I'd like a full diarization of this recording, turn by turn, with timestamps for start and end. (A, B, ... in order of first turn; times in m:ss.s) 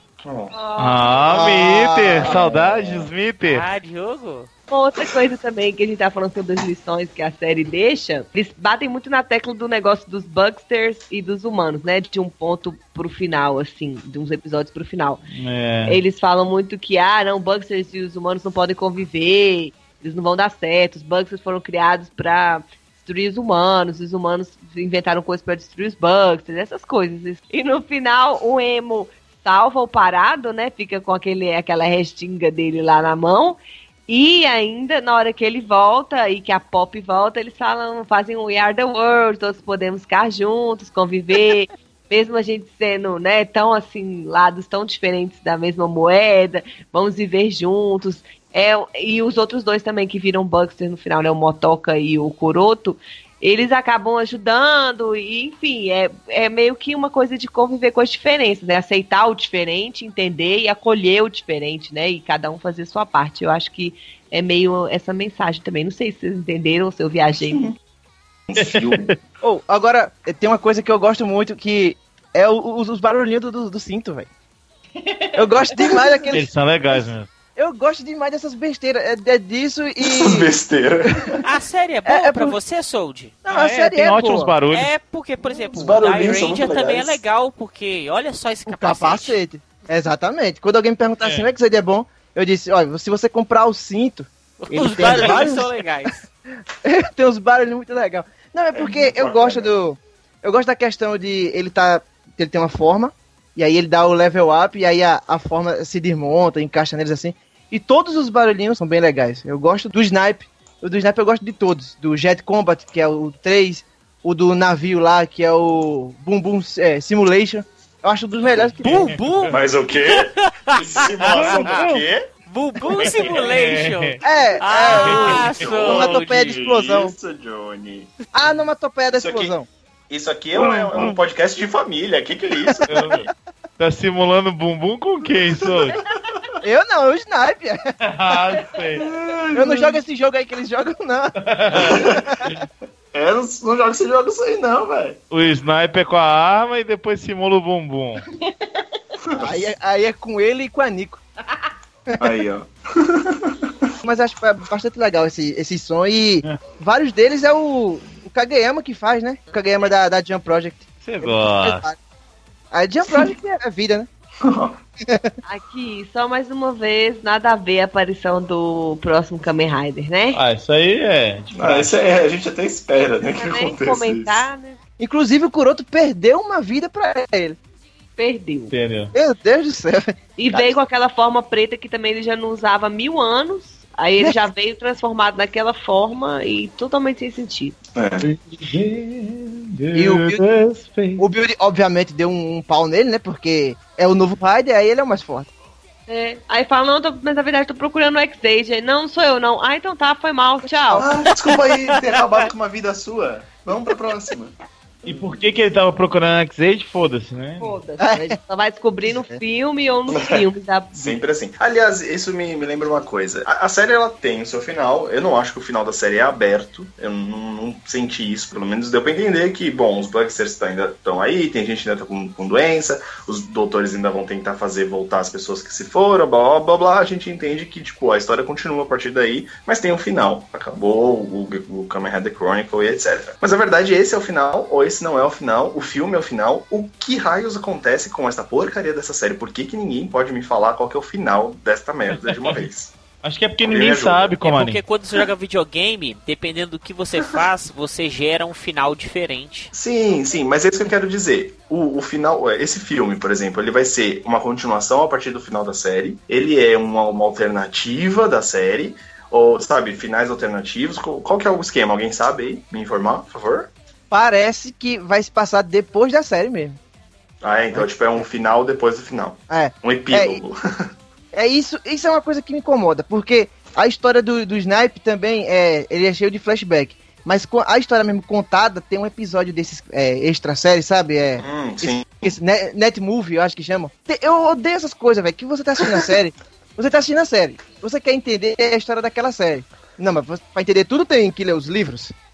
0:00.2-0:00.5 A
0:00.5-0:01.3 B
0:00.8-0:03.7 C
0:01.3-0:02.4 D
0:02.2-0:03.1 A
0:03.4-0:04.5 E
0:04.7-0:15.2 B
0:15.3-0:16.0 C
0:15.8-1:07.7 B
1:07.4-1:07.8 A
1:08.5-1:09.1 A
1:08.6-1:09.2 C
1:09.4-1:14.3 D
1:15.0-1:16.2 B
1:15.4-1:16.5 D
1:16.3-1:17.3 C
1:17.6-1:20.5 D
1:20.1-1:21.4 A
1:21.4-1:23.4 E
1:22.0-1:22.6 D
1:23.4-1:24.5 D
1:23.5-1:24.9 C
1:24.7-1:29.4 E
1:25.6-1:27.2 A
1:28.7-1:35.7 D
1:31.2-1:31.5 C
1:34.6-1:36.2 E
1:36.8-1:59.2 D
1:38.8-1:39.7 A
1:58.4-1:59.6 C
1:58.8-1:59.5 E
1:59.5-2:02.3 A
2:00.1-2:00.8 E
2:01.2-2:02.0 C
2:01.4-2:01.7 E
2:02.5-2:06.5 E
2:02.9-2:04.2 C
2:03.0-2:03.4 A
2:04.2-2:07.1 D
2:04.8-2:08.1 A
2:04.9-2:05.6 C
2:08.3-2:09.7 D
2:09.2-2:09.5 A
2:10.1-2:13.2 A
2:10.6-2:11.2 C
2:12.9-2:16.0 C
2:15.4-2:16.6 A
2:16.6-2:17.8 D
2:18.0-2:19.1 C
2:19.0-2:20.0 A
2:19.5-2:22.5 D
2:21.4-2:22.6 C
2:21.7-2:22.2 A
2:23.1-2:25.2 A
2:25.3-2:28.2 C
2:28.4-2:28.8 B
2:29.3-2:29.7 A
2:29.4-2:31.2 D
2:32.2-2:33.9 A
2:34.0-2:42.0 D
2:41.0-2:41.8 C
2:42.7-2:44.1 D
2:44.4-2:44.8 A
2:45.4-2:50.4 B
2:50.3-2:51.9 C
2:51.5-2:54.5 A
2:53.4-2:54.8 B
2:55.0-2:57.6 D
2:58.2-2:58.7 B
2:58.7-2:59.1 C
2:59.1-3:00.7 D
3:00.4-3:07.8 B
3:08.0-3:08.2 A
3:08.2-3:11.2 C
3:10.0-3:10.4 D
3:11.2-3:15.5 D
3:16.1-3:21.0 B
3:21.0-3:25.5 A
3:25.0-3:27.7 C
3:27.6-3:31.2 B
3:28.0-3:28.3 D
3:29.1-3:29.4 D
3:30.1-4:03.0 A
4:02.1-4:02.6 C
4:03.2-4:04.8 C
4:03.6-4:04.4 A
4:04.4-4:09.7 E
4:09.7-4:23.7 A
4:24.1-4:26.8 D
4:27.4-4:30.9 A
4:29.5-4:30.4 D
4:31.3-4:52.1 D
4:41.4-4:42.2 A